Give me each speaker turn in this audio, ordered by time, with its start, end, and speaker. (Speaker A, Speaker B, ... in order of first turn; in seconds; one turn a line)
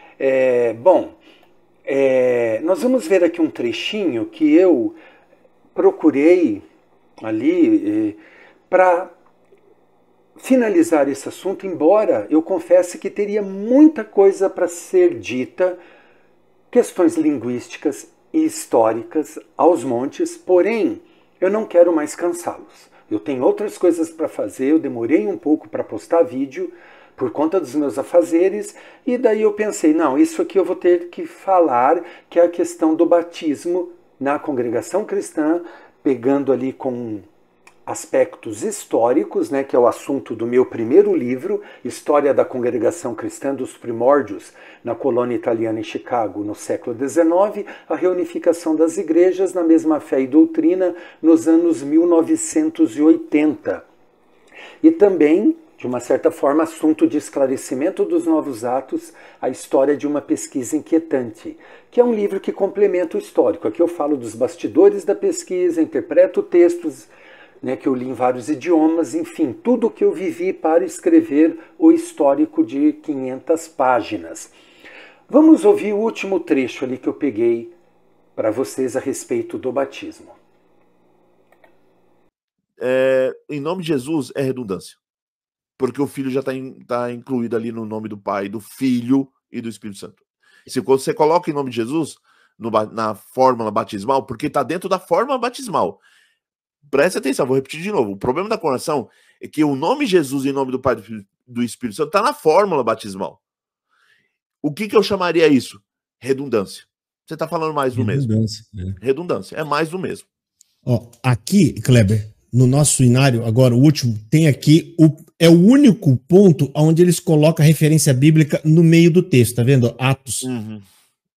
Speaker A: 0.2-1.2
Speaker A: 1.8-5.0
Speaker A: 5.7-6.6
Speaker A: 7.2-9.1
Speaker A: 10.3-15.8
Speaker A: 16.7-37.2
Speaker A: 37.9-53.9
Speaker A: 54.8-67.1
Speaker A: 67.6-74.5
Speaker A: 75.3-77.7
Speaker A: 78.3-80.4
Speaker B: 82.8-85.0
Speaker B: 85.8-96.0
Speaker B: 96.9-103.4
Speaker B: 104.6-108.3
Speaker C: 107.9-109.0
Speaker B: 109.0-110.3
Speaker C: 110.8-120.5
Speaker B: 120.4-120.8